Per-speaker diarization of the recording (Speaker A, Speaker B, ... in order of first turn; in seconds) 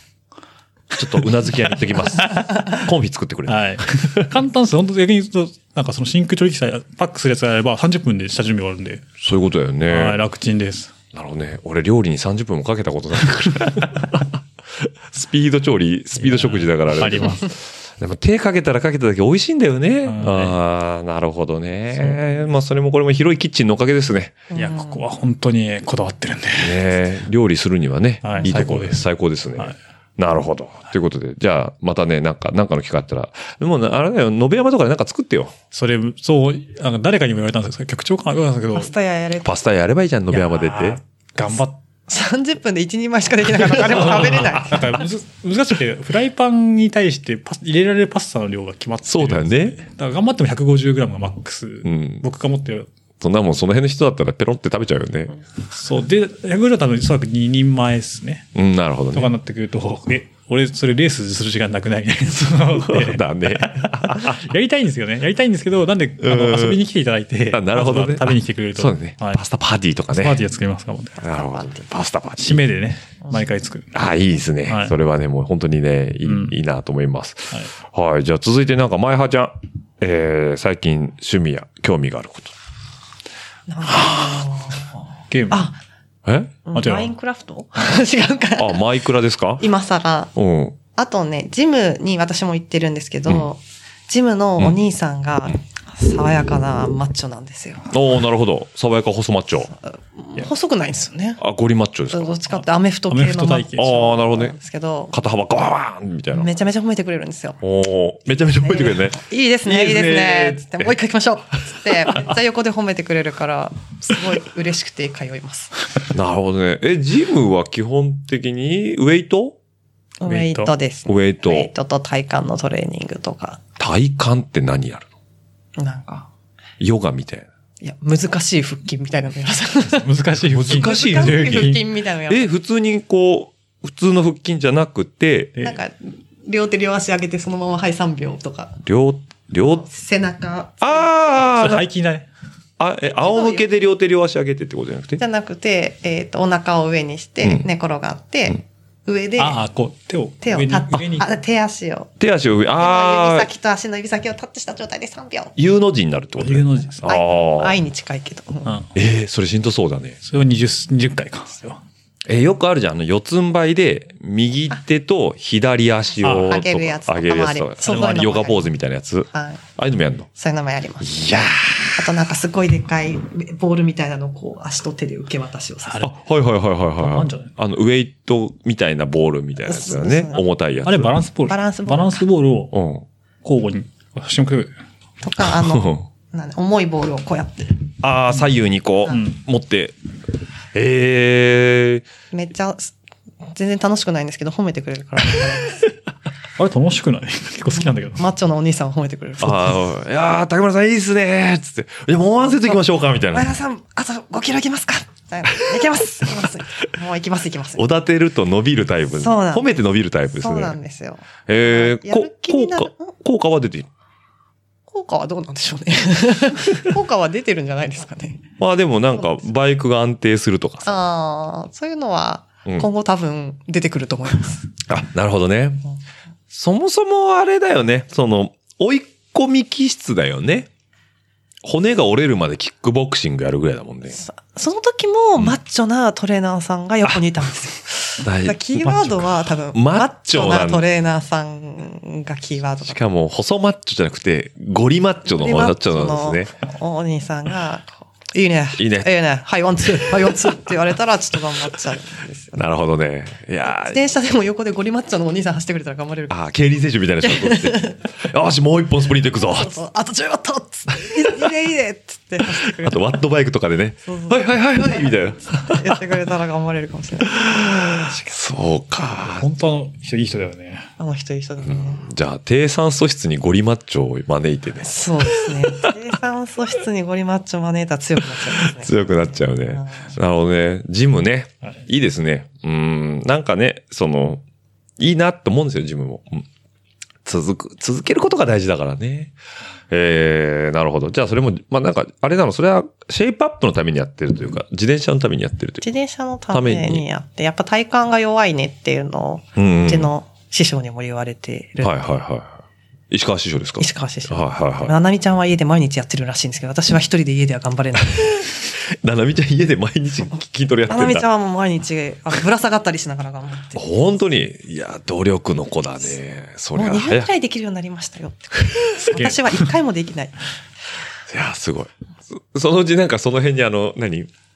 Speaker A: 0.9-4.3, 9.2-10.2, 11.1-24.4, 26.6-35.5, 39.4-41.0, 49.0-49.8, 51.8-52.2, 53.2-55.4, 58.5-59.3, 62.7-64.5, 66.2-66.8, 67.5-70.4, 71.2-72.6, 73.9-82.5, 83.9-84.4, 86.2-86.5, 88.6-89.7, 90.3-90.8, 97.9-99.7, 101.4-102.4, 103.8-104.5, 105.1-106.5, 107.6-110.9, 116.1-119.6, 121.0-121.7, 123.8-125.1, 126.8-127.5, 130.5-135.6, 138.8-139.8, 140.8-141.8, 142.8-145.2, 152.2-153.5, 155.6-157.8, 158.9-160.2, 162.2-170.3, 171.0-172.1, 176.0-181.1, 182.7-183.0, 185.4-186.0, 188.0-189.9, 190.7-192.0, 199.4-203.5, 207.8-210.8, 211.5-213.9, 218.6-221.0, 224.9-225.8, 226.5-230.7, 231.6-234.2, 238.2-240.8, 242.8-246.5, 248.8-249.1, 249.9-250.5, 252.5-254.0, 256.3-259.8, 262.8-266.0, 267.2-269.5, 271.6-275.9, 278.4-284.4, 285.0-286.5, 287.2-289.3, 289.9-295.9, 296.5-297.0, 299.6-300.1, 301.8-302.6, 303.1-304.9, 308.2-311.2, 313.7-317.3, 318.7-319.2, 321.3-324.3
Speaker B: 0.9-1.5, 3.5-9.1, 9.9-10.9, 13.3-14.0, 16.2-17.5, 20.0-20.6, 24.5-26.8, 28.2-29.8, 35.7-38.9, 40.3-41.8, 43.9-52.9, 55.7-58.5, 59.1-69.4, 70.1-71.2, 72.4-73.9, 74.7-74.9, 76.2-76.5, 85.3-85.6, 86.7-87.1, 103.1-104.0, 120.2-120.7, 129.9-131.8, 141.6-142.3, 149.4-151.3, 156.4-157.1, 160.2-161.8, 166.2-166.6, 167.8-168.3, 177.0-177.5, 180.8-182.8, 183.4-184.7, 189.1-189.4, 196.6-198.2, 269.2-270.9, 319.1-319.6
Speaker C: 24.5-25.0, 38.7-39.6, 42.1-45.0, 71.3-71.8, 83.7-85.8, 86.7-88.8, 89.6-90.3, 90.9-97.9, 99.8-101.4, 102.1-105.1, 106.3-107.6, 108.3-115.9, 120.2-123.6, 125.8-126.3, 127.8-130.1, 130.7-132.5, 135.6-138.8, 139.7-141.3, 143.1-143.7, 145.2-149.6, 150.4-152.1, 152.8-155.5, 157.1-158.8, 166.2-168.7, 169.3-169.6, 170.3-171.2, 171.9-176.1, 179.6-180.4, 181.4-182.2, 185.2-187.8, 192.3-192.9, 193.5-195.9, 198.1-199.9, 203.3-207.8, 209.2-209.7, 210.3-213.1, 214.9-218.4, 220.8-224.7, 234.1-243.0, 245.2-252.6, 253.6-256.4, 257.2-258.0, 259.3-263.2, 264.0-268.3, 271.0-272.0, 274.8-280.1, 295.8-302.1, 303.8-308.4, 310.9-314.1, 316.7-320.4